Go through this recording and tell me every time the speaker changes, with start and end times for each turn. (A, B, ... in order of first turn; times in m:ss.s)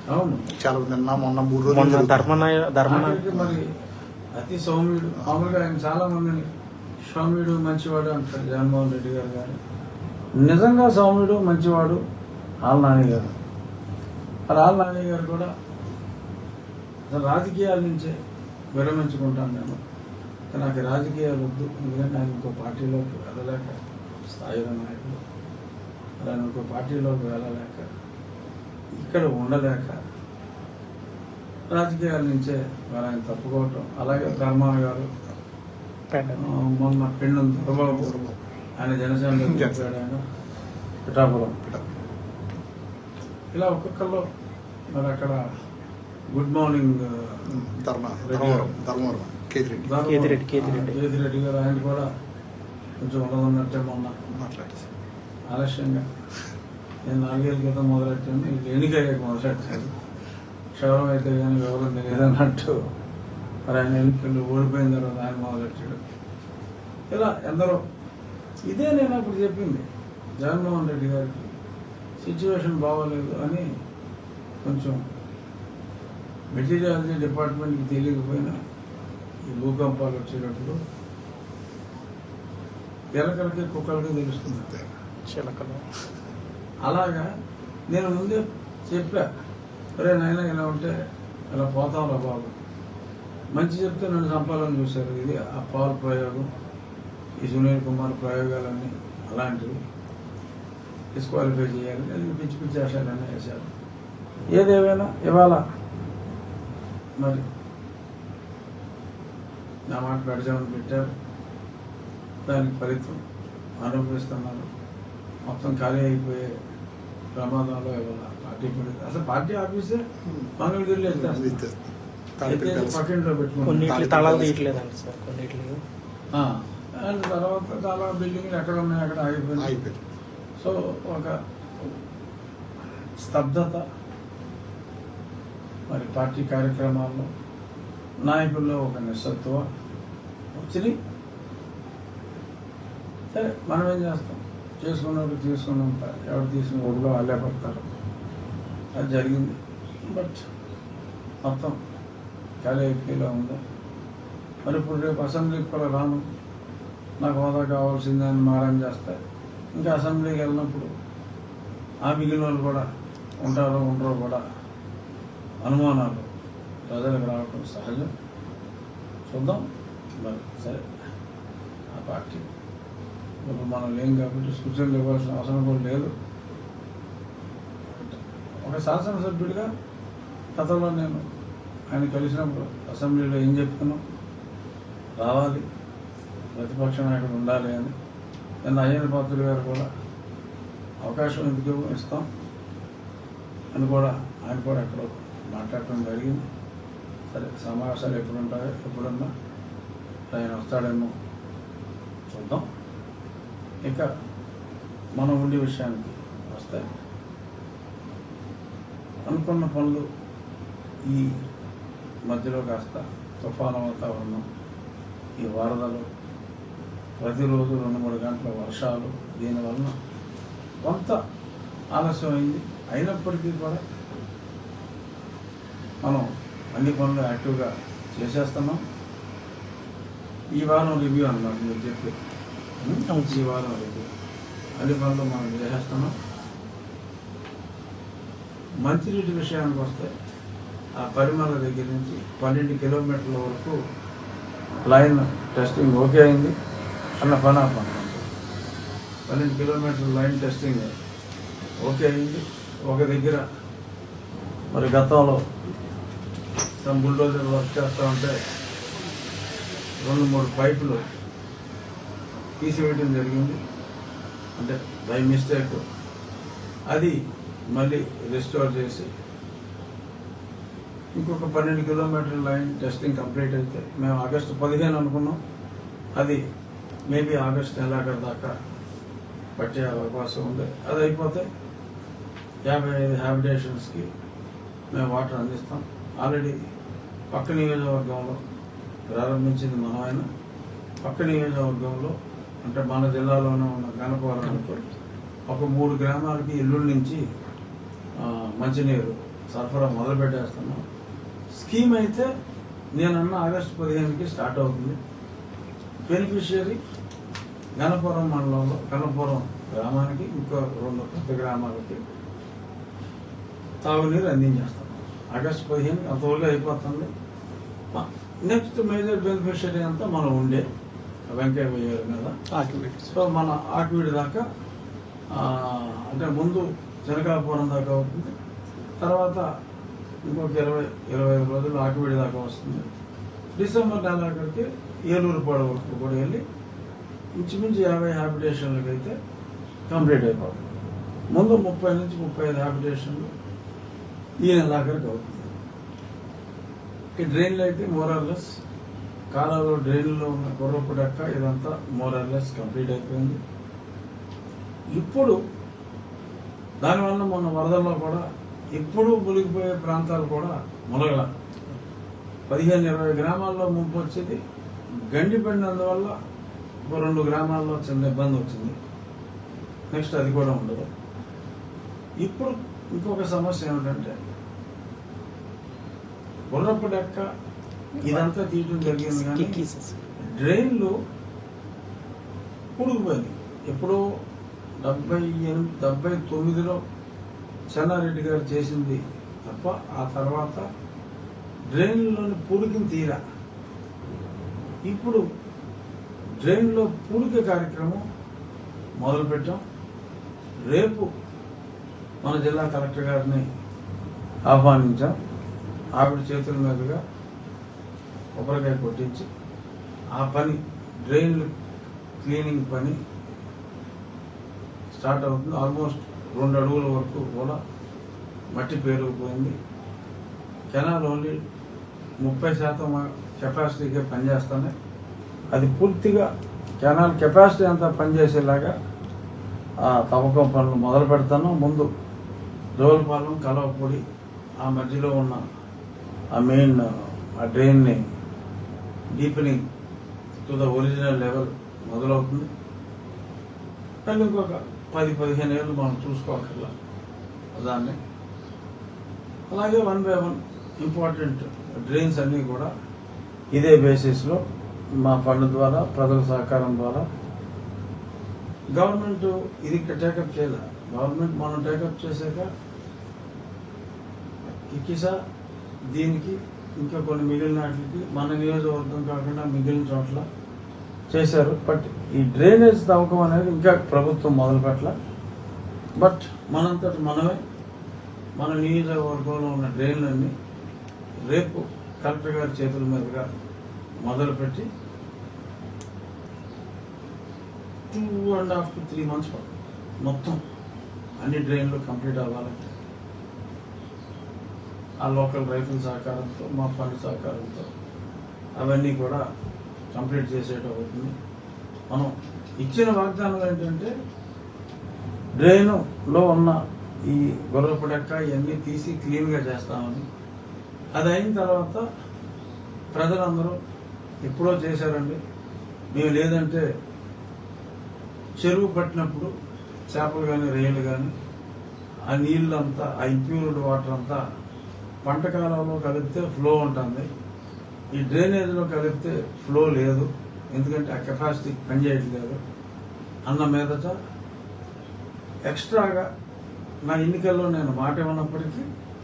0:00.1-0:00.5 A
0:00.5-0:02.5 B
0:01.7-0:03.2 C
0:02.9-0:03.7 A
0:03.3-0:03.6 B
0:04.4-0:06.5 A
0:07.1-0:09.6 A
0:10.4-0:12.0 A
0:12.6-0:13.3 A
0:14.5-0:15.5 A
0:17.1-0:18.1 A
0:18.7-0:19.8 A
0:20.5-0:23.8 A
0:24.3-0:25.2 A
0:26.2-0:27.9 A
0:29.0-0:30.0 A
0:31.7-0:35.1 A
0:36.1-0:36.4 C
0:36.4-0:38.1 A
0:37.6-0:38.4 B
0:38.8-0:40.2 A
0:39.3-0:39.9 B
0:41.0-0:41.6 A
0:43.5-0:44.3 A
0:44.9-0:45.4 A
0:46.3-0:47.5 A
0:47.5-0:50.0 B
0:48.2-0:48.7 A
0:49.8-0:52.1 A
0:50.0-0:51.0 C
0:53.0-0:54.1 A
0:54.3-0:54.9 B
0:55.5-0:56.0 A
0:57.1-0:59.9 A
1:00.8-1:02.8 A
1:03.7-1:06.0 A
1:07.1-1:07.8 A
1:08.7-1:09.8 A
1:10.4-1:11.5 A
1:12.2-1:13.7 A
1:14.6-1:15.0 A
1:16.5-1:18.6 A
1:19.5-1:20.8 A
1:23.2-1:24.8 A
1:25.3-1:25.8 C
1:26.8-1:27.3 A
1:27.9-1:29.3 A
1:30.0-1:30.9 A
1:31.5-1:32.5 A
1:33.5-1:36.5 A
1:37.4-1:39.8 A
1:41.1-1:43.7 A
1:44.5-1:45.6 A
1:47.2-1:47.4 A
1:49.9-1:51.1 A
1:52.5-1:53.2 A
1:53.8-1:54.7 A
1:55.5-1:56.5 A
1:57.4-2:00.0 A
2:00.6-2:01.6 A
2:01.1-2:03.0 B
2:02.5-2:04.2 A
2:03.7-2:05.8 C
2:03.8-2:04.8 B
2:06.3-2:09.8 A
2:09.6-2:10.0 B
2:10.6-2:11.8 A
2:13.2-2:13.8 A
2:15.9-2:17.3 A
2:18.2-2:19.7 A
2:20.5-2:21.0 A
2:23.3-2:27.8 A
2:29.0-2:30.4 A
2:31.4-2:31.8 A
2:32.6-2:33.6 A
2:34.6-2:36.2 A
2:37.2-2:39.2 A
2:39.7-2:40.9 A
2:42.0-2:42.8 A
2:43.4-2:44.4 A
2:45.6-2:46.3 A
2:46.9-2:48.1 A
2:49.3-2:49.6 A
2:50.2-2:50.8 A
2:51.9-2:52.4 A
2:53.4-2:56.1 A
2:58.0-2:59.7 A
3:00.6-3:01.2 A
3:01.9-3:04.0 A
3:05.2-3:05.6 A
3:06.5-3:07.9 A
3:08.6-3:09.9 A
3:11.0-3:12.3 A
3:13.7-3:16.5 A
3:17.3-3:19.3 A
3:20.3-3:21.1 A
3:22.3-3:22.6 A
3:25.2-3:26.9 A
3:29.3-3:30.0 A
3:31.1-3:31.4 A
3:32.3-3:34.4 A
3:35.4-3:36.0 A
3:37.2-3:40.0 A
3:40.8-3:41.2 A
3:41.9-3:43.8 A
3:46.0-3:48.8 A
3:50.6-3:52.2 A
3:52.8-3:54.1 A
3:53.1-3:53.4 C
3:54.8-3:56.1 A
3:58.8-4:00.1 A
4:01.0-4:03.8 A
4:04.8-4:06.6 A
4:07.2-4:08.3 A
4:09.3-4:10.9 A
4:11.8-4:13.4 A
4:14.7-4:15.4 A
4:16.8-4:18.4 A
4:20.0-4:21.1 A
4:22.6-4:23.6 A
4:24.6-4:25.8 A
4:26.9-4:27.2 A
4:27.7-4:29.1 A
4:31.2-4:35.4 A
4:36.2-4:36.4 A
4:37.1-4:38.5 A
4:39.6-4:41.5 A
4:42.7-4:44.1 A
4:44.9-4:46.6 A
4:47.3-4:48.4 A
4:49.1-4:50.3 A
4:51.0-4:54.8 A
4:55.5-4:57.2 A
4:58.2-5:00.8 A
5:01.6-5:02.3 A
5:03.0-5:05.0 A
5:06.1-5:06.8 A
5:07.8-5:12.0 A
5:13.8-5:17.1 A
5:17.9-5:20.6 A
5:21.3-5:22.3 A
5:22.5-5:23.2 C
5:23.1-5:24.4 A
5:25.3-5:28.3 A
5:29.0-5:29.4 A
5:30.2-5:32.9 A
5:33.6-5:36.4 A
5:37.4-5:39.1 A
5:39.9-5:40.6 A
5:41.3-5:43.3 A
5:44.4-5:45.5 A
5:47.2-5:48.5 A
5:49.3-5:53.4 A
5:54.9-5:55.4 A
5:56.8-6:01.3 A
6:02.5-6:04.4 A
6:05.1-6:06.2 A
6:06.9-6:08.8 A
6:09.9-6:10.9 A
6:12.2-6:14.1 A
6:16.5-6:17.3 A
6:18.0-6:18.3 C
6:18.0-6:19.6 A
6:18.8-6:20.0 C
6:20.2-6:21.0 A
6:22.8-6:24.0 A
6:24.8-6:26.8 A
6:27.7-6:30.6 A
6:31.7-6:33.2 A
6:34.9-6:35.2 A
6:36.4-6:38.0 A
6:39.0-6:39.6 A
6:40.7-6:41.1 A
6:42.2-6:43.4 A
6:44.5-6:45.1 A
6:46.0-6:47.0 A
6:48.4-6:49.3 A
6:50.1-6:51.5 A
6:52.2-6:53.0 A
6:54.9-6:57.6 A
6:58.5-6:59.6 A
7:00.7-7:01.4 A
7:02.2-7:04.7 A
7:05.5-7:06.3 A
7:06.8-7:08.7 A
7:09.8-7:11.9 A
7:12.8-7:14.0 A
7:14.6-7:15.4 A
7:16.3-7:18.0 A
7:19.1-7:19.6 A
7:20.4-7:22.5 A
7:24.1-7:26.7 A
7:27.5-7:28.0 A
7:29.5-7:32.7 A
7:33.5-7:34.4 A
7:35.0-7:37.0 A
7:38.8-7:42.5 A
7:44.5-7:45.2 A
7:45.9-7:50.2 A
7:51.1-7:55.0 A
7:56.0-7:57.4 A
7:58.4-8:00.3 A
8:01.3-8:03.3 A
8:04.0-8:04.7 A
8:07.9-8:10.4 A
8:11.2-8:12.7 A
8:15.0-8:17.6 A
8:18.6-8:19.2 A
8:19.9-8:21.1 A
8:21.9-8:23.9 A
8:25.4-8:30.0 A
8:31.0-8:31.8 A
8:32.9-8:33.6 A
8:34.2-8:35.2 A
8:35.9-8:36.6 A
8:38.4-8:39.3 A
8:39.9-8:41.1 A
8:42.1-8:44.2 A
8:45.0-8:47.1 A
8:47.9-8:52.4 A
8:53.3-8:54.0 A
8:55.5-8:56.1 A
8:56.8-8:58.6 A